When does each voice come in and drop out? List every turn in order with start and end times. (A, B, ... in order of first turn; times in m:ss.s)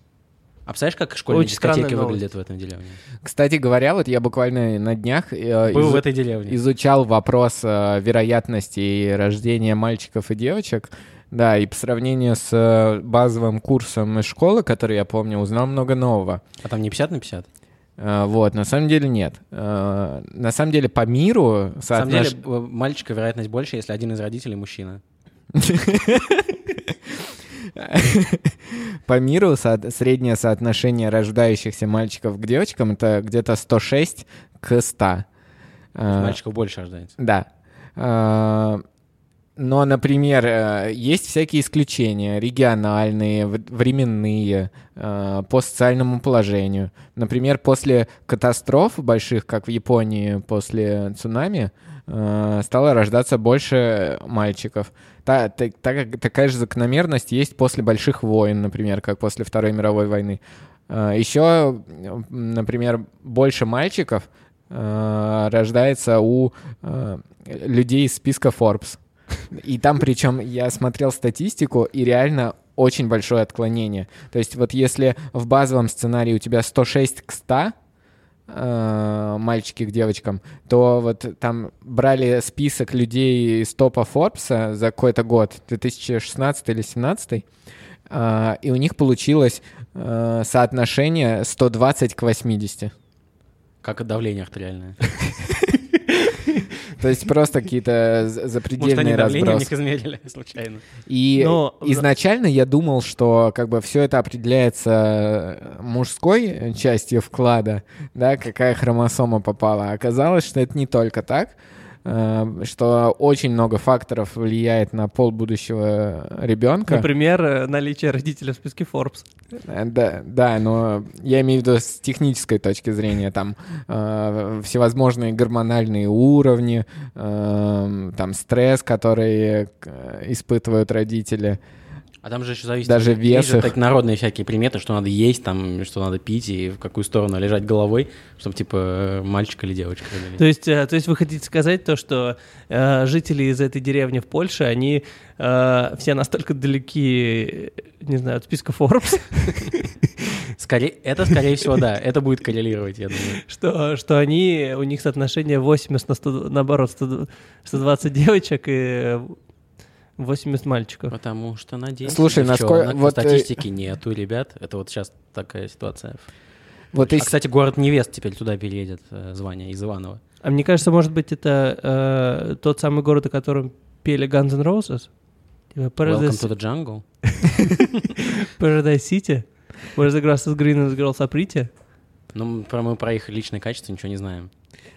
0:00.6-0:03.0 A
0:01.3-0:02.2 B
0:03.2-0:16.4 C
0:05.7-0:06.6 A
0:16.6-0:17.5 A
0:18.0-0:22.4 C
0:21.9-0:25.0 A
0:25.5-0:35.2 C
0:36.0-0:36.4 C
0:36.1-0:37.2 A
0:37.2-0:38.8 C
0:39.6-1:09.0 C
1:09.5-1:17.7 C
1:18.5-1:27.4 C
1:28.1-1:32.9 C
1:33.8-1:35.0 A
1:37.0-1:39.7 C
1:38.8-1:40.8 A
1:41.1-1:57.0 C
1:41.4-1:42.0 B
1:56.9-1:59.2 B
1:59.6-2:11.6 C
2:12.2-2:20.4 A
2:12.8-2:13.7 C
2:20.4-2:29.9 B
2:30.6-2:33.4 A
2:33.4-2:39.4 B
2:40.2-2:41.1 B
2:41.1-2:46.3 A
2:42.0-2:43.5 C
2:46.9-2:47.3 C
2:47.0-2:50.2 A
2:50.4-2:55.1 B
2:55.7-2:56.5 B
2:56.0-2:57.0 A
2:57.4-3:01.7 B
3:02.3-3:04.5 A